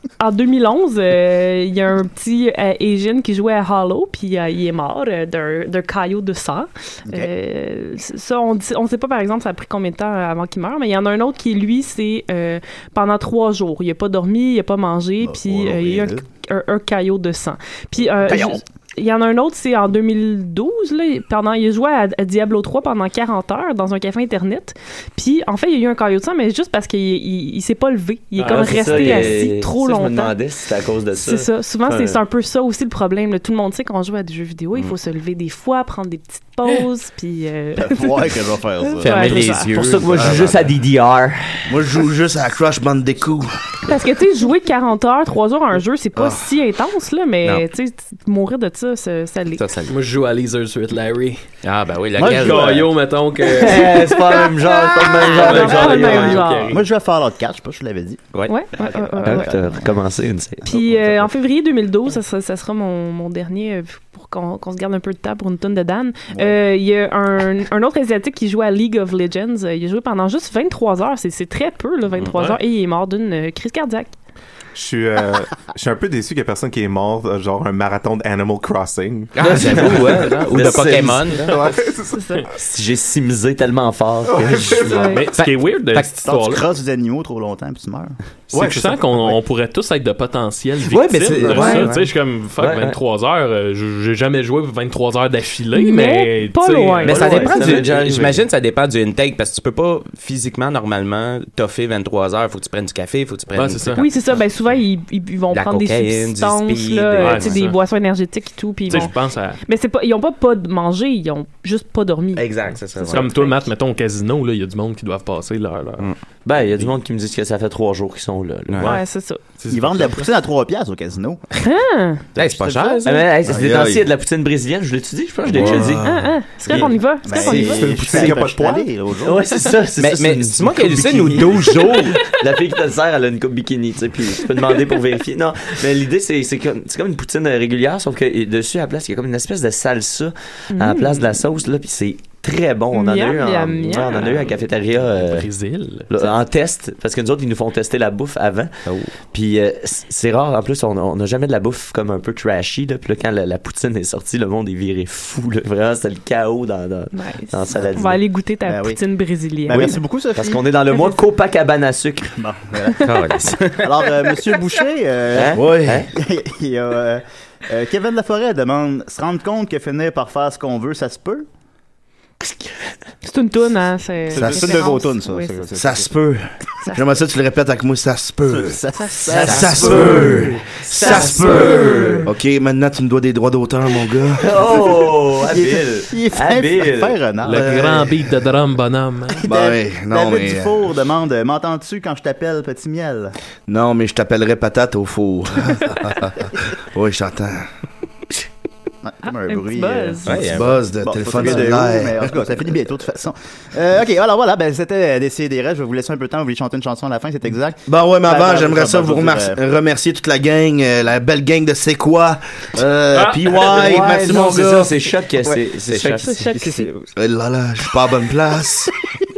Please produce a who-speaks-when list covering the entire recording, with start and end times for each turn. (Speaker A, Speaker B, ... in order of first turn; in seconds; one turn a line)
Speaker A: 0.2-30.4
Speaker B: 15.2-16.2
Speaker B: 18.3-18.5
Speaker C: 28.3-29.3
Speaker D: 28.4-32.2
Speaker A: 31.1-39.8
Speaker B: 37.8-39.1
Speaker E: 39.0-40.7
Speaker D: 39.1-42.0
Speaker F: 41.7-43.7
Speaker A: 43.9-49.6
Speaker E: 49.5-49.9
Speaker C: 49.9-51.4
Speaker E: 51.6-52.9
Speaker B: 52.2-52.9
Speaker C: 52.2-54.1
Speaker D: 53.4-56.4
Speaker A: 54.1-56.8
Speaker C: 55.4-56.8
Speaker B: 56.7-58.3
Speaker A: 58.5-59.5
Speaker B: 59.0-59.9
Speaker D: 59.2-60.8
Speaker A: 60.6-74.1
Speaker G: 74.7-80.0
Speaker E: 79.3-81.6
Speaker D: 79.7-81.4
Speaker G: 81.4-82.4
Speaker A: 82.0-82.5
Speaker D: 82.5-85.2
Speaker A: 84.8-85.3
Speaker C: 85.0-86.6
Speaker E: 85.3-86.1
Speaker B: 86.2-88.1
Speaker C: 88.5-97.9
Speaker G: 88.5-89.0
Speaker E: 90.9-92.1
Speaker D: 91.0-92.0
Speaker D: 92.5-93.0
Speaker A: 95.7-97.8
Speaker E: 97.0-104.4
Speaker D: 97.0-98.4
Speaker C: 103.5-104.0
Speaker A: 103.9-113.6
Speaker E: 105.5-107.7
Speaker C: 107.2-107.7
Speaker C: 108.9-109.6
Speaker E: 112.3-113.5
Speaker C: 113.1-116.1
Speaker D: 116.4-118.9
Speaker A: 118.8-119.4
Speaker C: 119.6-120.3
Speaker B: 119.7-121.5
Speaker A: 121.5-122.3
Speaker E: 122.3-123.3
Speaker B: 122.4-123.1
Speaker D: 123.0-127.0
Speaker F: 123.4-124.1
Speaker F: 125.5-126.4
Speaker E: 125.5-126.0
Speaker A: 126.0-128.3
Speaker B: 127.2-129.5
Speaker G: 127.6-128.9
Speaker D: 129.2-145.5
Speaker E: 129.9-132.2
Speaker A: 140.7-141.2
Speaker A: 142.9-144.3
Speaker C: 145.2-146.1
Speaker D: 146.1-158.2
Speaker A: 157.1-160.0
Speaker B: 158.7-159.0
Speaker B: 159.7-160.6
Speaker D: 159.7-162.4
Speaker A: 160.9-161.2
Speaker B: 162.4-163.1
Speaker A: 162.9-163.5
Speaker E: 163.0-164.1
Speaker B: 163.8-171.4
Speaker D: 165.3-166.1
Speaker F: 165.5-166.1
Speaker A: 173.2-175.7
Speaker B: 174.3-176.1
Speaker F: 174.4-174.8
Speaker F: 175.8-178.8
Speaker A: 176.8-177.2
Speaker B: 178.5-181.7
Speaker A: 179.0-180.3
Speaker D: 179.3-179.8
Speaker F: 179.3-184.4
Speaker A: 181.0-182.2
Speaker D: 181.1-182.2
Speaker D: 184.4-187.2
Speaker B: 185.5-188.1
Speaker C: 187.4-189.4
Speaker F: 187.5-188.2
Speaker F: 189.4-190.8
Speaker B: 189.4-193.3
Speaker F: 193.7-197.7
Speaker B: 199.0-209.6
Speaker A: 199.3-200.4
Speaker E: 200.2-200.7
Speaker F: 200.4-202.3
Speaker F: 207.9-214.9
Speaker C: 213.1-213.4
Speaker D: 213.5-216.5
Speaker E: 215.9-216.2
Speaker A: 216.2-216.9
Speaker B: 216.5-217.0
Speaker F: 217.1-218.9